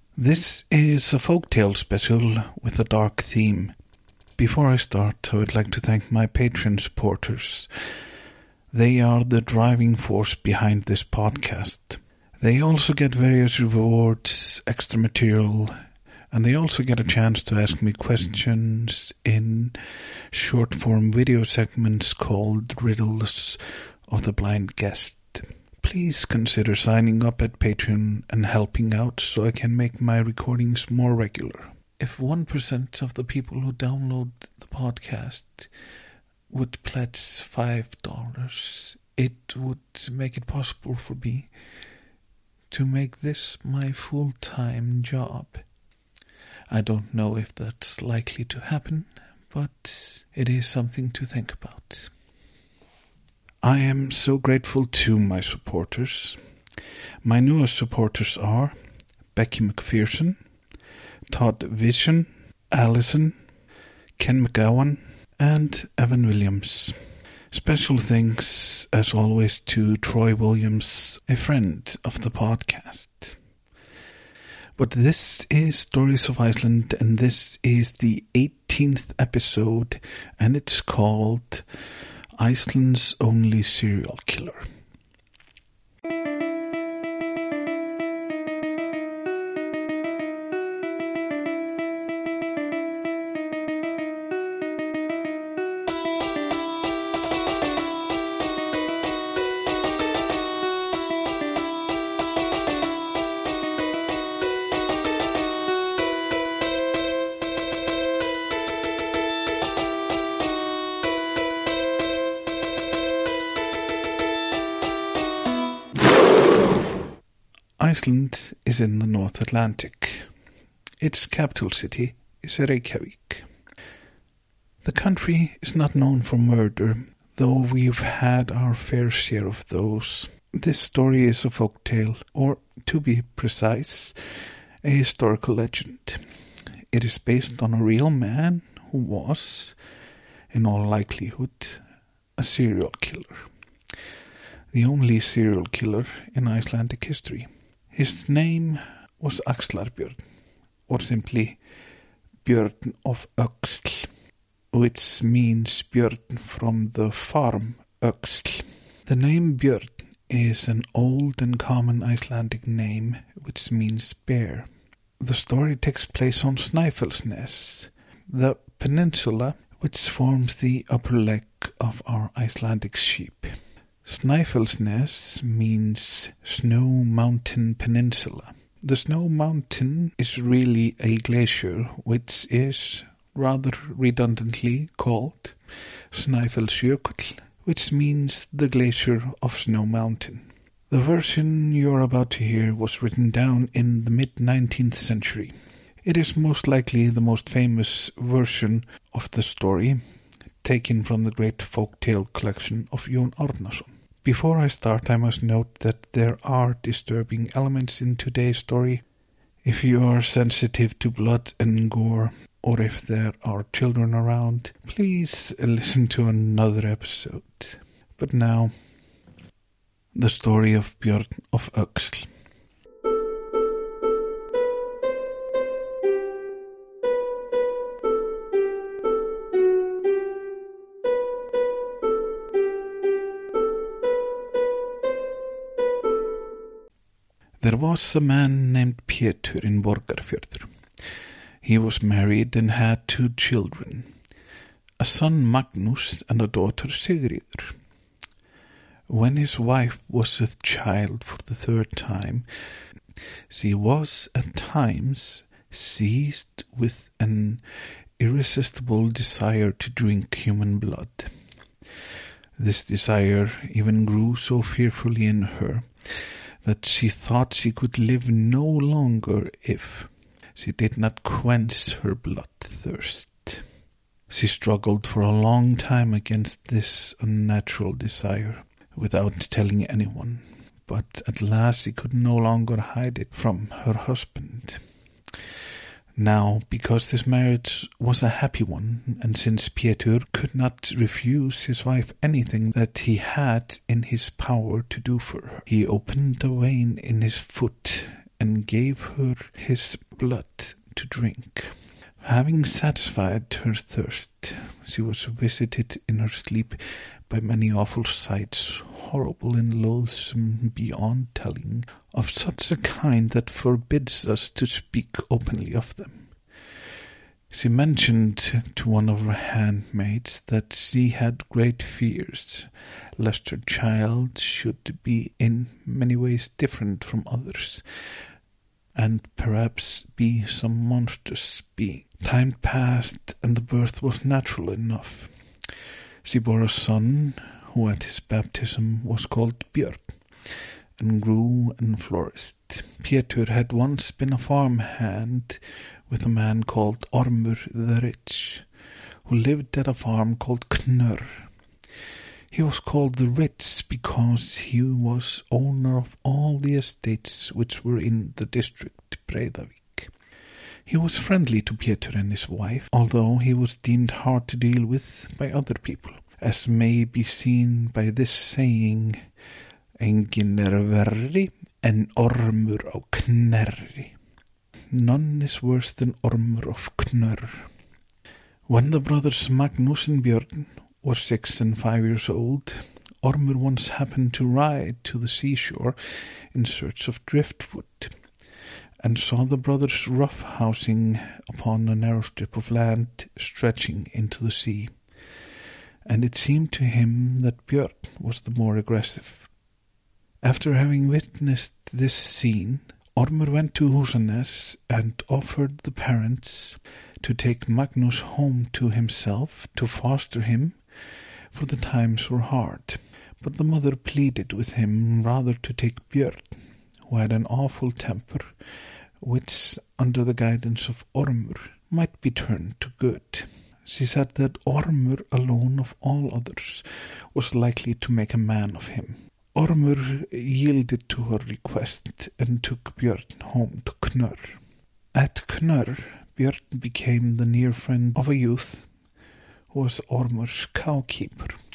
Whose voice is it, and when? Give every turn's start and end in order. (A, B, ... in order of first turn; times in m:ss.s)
0:00.2-0:03.8 A
0:04.4-0:07.7 A
0:08.7-0:15.8 A
0:16.3-0:19.8 A
0:20.3-0:35.7 A
0:36.5-0:41.5 A
0:42.7-0:45.6 A
0:46.7-0:52.1 A
0:53.6-0:56.4 A
0:57.2-0:58.8 A
0:59.3-1:00.4 A
1:01.3-1:03.4 A
1:04.2-1:07.0 A
1:07.5-1:13.4 A
1:14.8-1:21.7 A
1:22.4-1:24.7 A
1:57.8-2:00.3 A
2:01.0-2:03.5 A
2:04.8-2:16.2 A
2:16.9-2:19.8 A
2:20.5-2:21.8 A
2:22.4-2:23.5 A
2:24.7-2:30.2 A
2:30.9-2:31.6 A
2:32.4-2:34.1 A
2:34.7-3:05.6 A
3:06.1-3:20.0 A
3:20.6-3:29.0 A
3:29.6-3:38.7 A
3:40.1-3:42.3 A
3:57.6-4:00.7 A
4:01.6-4:04.1 A
4:05.0-4:07.8 A
4:09.1-4:12.5 A
4:13.5-4:17.6 A
4:18.2-4:21.3 A
4:22.6-4:33.6 A
4:34.3-4:44.8 A
4:46.2-5:16.4 A
5:17.5-5:27.8 A
5:29.0-5:35.3 A
5:36.2-5:48.7 A
5:49.2-5:51.5 A
5:52.5-6:00.1 A
6:00.9-6:09.2 A
6:10.0-6:14.1 A
6:14.9-6:17.7 A
6:18.7-6:28.2 A
6:29.0-6:35.0 A
6:36.1-6:39.5 A
6:40.4-6:50.8 A
6:51.5-6:58.5 A
6:59.2-7:14.6 A
7:15.1-7:18.9 A
7:19.7-7:21.6 A